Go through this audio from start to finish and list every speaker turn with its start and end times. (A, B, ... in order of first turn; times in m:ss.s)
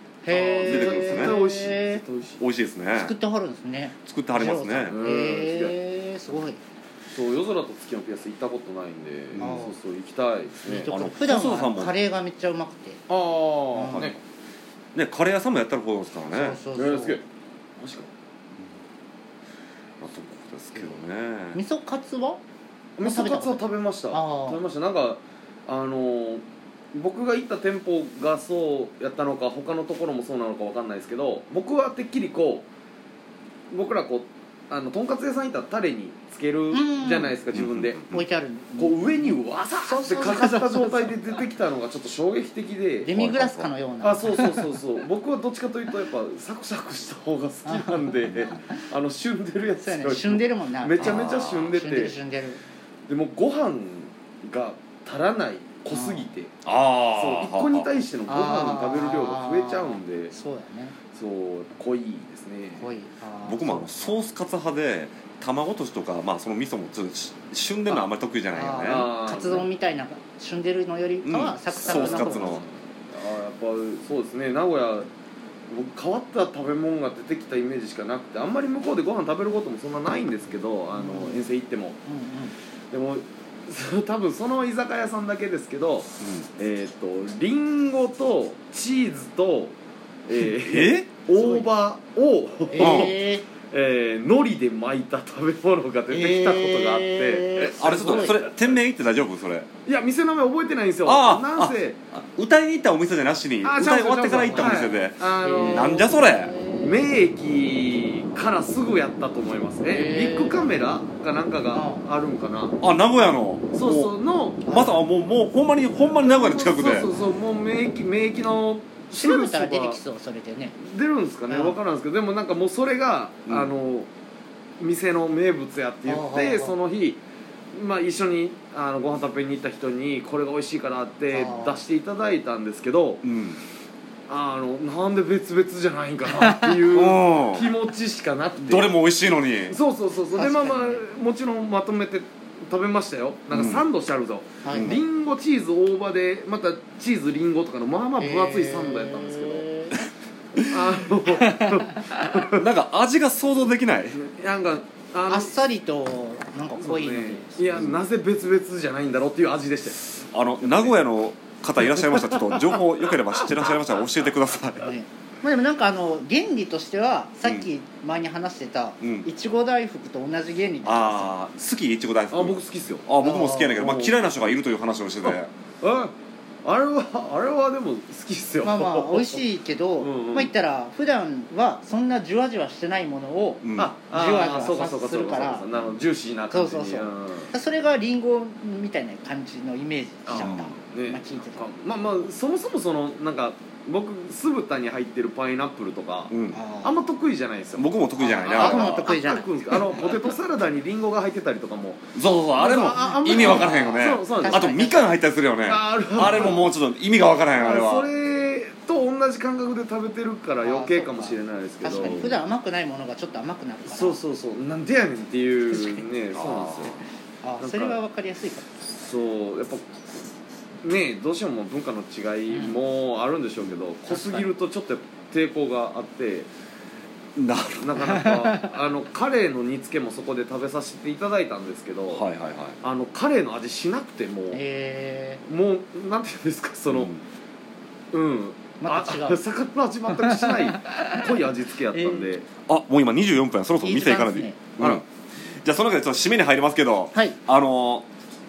0:00.2-0:02.0 A
0:00.3-0:02.4 B
0:00.6-0:01.4 C
0:02.4-0:03.1 C
0:02.9-0:06.6 A
0:04.0-0:05.0 C
0:04.9-0:05.7 B
0:07.1-0:10.9 B
0:09.3-0:09.6 C
0:09.4-0:09.8 A
0:10.6-0:13.0 A
0:10.9-0:12.0 C
0:13.1-0:14.2 B
0:13.7-0:14.1 A
0:13.8-0:14.1 C
0:14.9-0:16.6 C
0:16.3-0:17.2 A
0:16.7-0:17.2 B
0:17.8-0:18.1 B
0:20.0-0:21.6 C
0:21.5-0:22.4 A
0:23.0-0:32.7 B
0:23.0-0:24.6 A
0:33.7-0:38.0 B
0:36.7-0:37.4 A
0:37.5-0:38.2 C
0:38.1-0:41.1 A
0:38.8-0:52.2 B
0:43.0-0:44.6 A
0:47.6-0:48.7 A
0:49.8-0:52.6 A
0:51.0-0:51.7 C
0:53.1-0:56.6 B
0:55.9-0:56.3 A
0:56.6-0:57.9 C
0:57.1-1:00.3 B
0:58.3-1:01.0 A
1:01.1-1:02.9 B
1:02.8-1:04.2 A
1:03.4-1:09.1 C
1:07.9-1:12.6 A
1:08.8-1:09.7 B
1:11.2-1:12.6 C
1:11.8-1:15.1 B
1:15.7-1:22.0 B
1:20.9-1:21.4 A
1:22.0-1:22.5 A
1:22.9-1:29.8 B
1:30.3-1:33.2 B
1:30.6-1:31.1 C
1:31.3-1:31.6 A
1:32.7-1:33.4 A
1:32.8-1:33.1 C
1:33.7-1:38.8 B
1:36.1-1:38.4 A
1:37.8-1:39.7 C
1:39.8-1:42.0 B
1:41.0-1:46.5 C
1:43.6-1:46.1 B
1:44.5-1:47.0 A
1:46.8-1:52.8 B
1:49.9-1:50.9 A
1:51.7-1:52.0 A
1:52.8-1:54.1 C
1:53.7-1:54.7 B
1:54.6-1:55.0 A
1:54.6-1:57.1 C
1:56.2-2:00.0 B
1:59.2-2:00.8 A
2:00.8-2:04.1 B
2:01.5-2:01.8 A
2:04.8-2:07.2 B
2:06.1-2:06.8 A
2:07.7-2:13.2 B
2:11.3-2:11.8 A
2:13.2-2:13.6 C
2:14.3-2:19.0 B
2:16.9-2:17.7 C
2:18.6-2:19.8 C
2:19.7-2:29.7 B
2:20.4-2:21.0 A
2:23.5-2:23.8 C
2:24.6-2:25.0 A
2:24.7-2:25.0 C
2:28.2-2:30.0 A
2:30.6-2:32.6 B
2:31.3-2:32.0 A
2:32.5-2:34.2 C
2:34.1-2:35.6 B
2:35.3-2:37.8 A
2:36.7-2:41.0 B
2:37.7-2:38.0 C
2:40.3-2:44.9 C
2:41.8-2:42.8 B
2:44.8-2:51.3 A
2:47.4-2:47.7 C
2:49.0-2:49.3 C
2:50.8-2:55.5 C
2:52.3-2:53.1 B
2:53.2-2:53.8 A
2:53.7-2:54.3 B
2:55.2-2:56.1 B
2:56.6-2:59.4 B
2:58.6-3:05.6 A
3:00.0-3:00.5 B
3:03.6-3:03.9 C
3:03.8-3:07.5 B
3:06.5-3:11.6 A
3:10.2-3:24.7 B
3:10.3-3:10.7 C
3:16.3-3:16.6 C
3:16.5-3:17.0 A
3:17.8-3:19.1 C
3:18.2-3:20.2 A
3:22.1-3:28.1 C
3:23.0-3:25.2 A
3:25.6-3:26.7 B
3:26.2-3:26.6 A
3:27.5-3:32.4 B
3:30.6-3:34.2 A
3:32.0-3:32.3 C
3:33.8-3:37.0 B
3:36.4-3:36.9 C
3:37.4-3:38.7 A
3:37.6-3:38.0 B
3:38.9-3:39.9 B
3:40.8-3:46.5 B
3:42.5-3:42.8 A
3:44.1-3:44.4 A
3:47.4-3:48.0 C
3:47.8-3:52.2 B
3:48.0-3:48.7 A
3:52.1-3:52.8 C
3:52.8-3:54.6 B
3:54.5-3:55.4 A
3:55.4-3:57.1 B
3:56.9-3:57.2 C
3:58.1-4:02.5 B
3:58.8-3:59.4 A
4:00.1-4:01.2 A
4:01.9-4:02.3 A
4:02.7-4:08.0 C
4:03.8-4:04.6 A